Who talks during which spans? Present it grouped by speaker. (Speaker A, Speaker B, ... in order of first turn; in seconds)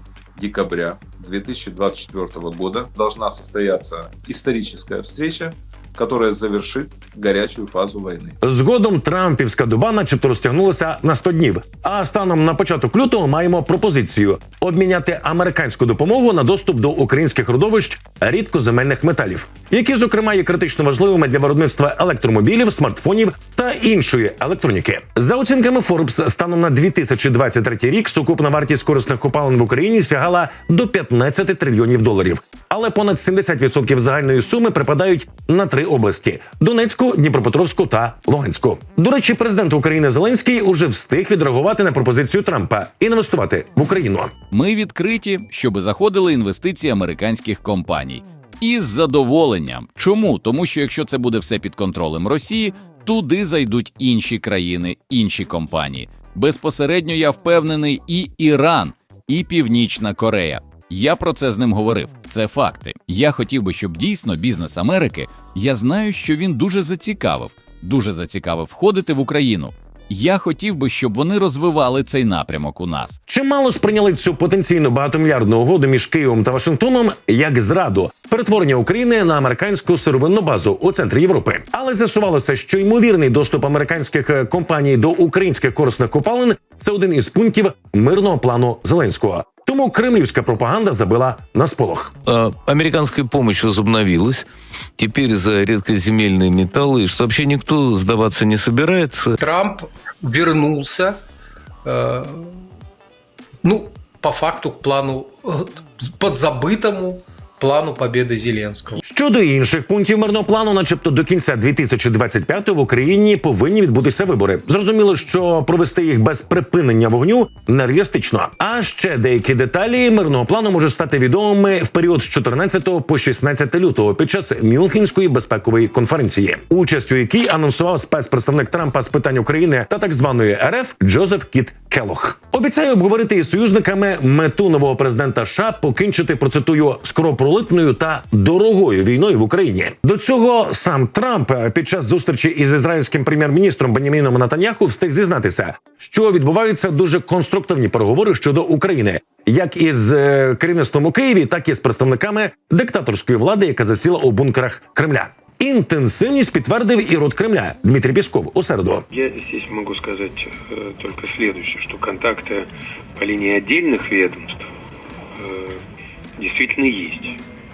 Speaker A: 0.3-8.3
Speaker B: 8.4-44.3, 73.3-92.1, 109.0-159.0
Speaker C: 44.5-73.2
Speaker D: 92.3-94.5, 95.0-99.3
Speaker E: 99.4-101.2, 101.8-102.5, 103.6-109.0
Speaker F: 159.2-162.6, 163.2-164.6, 165.4-165.7, 166.4-167.3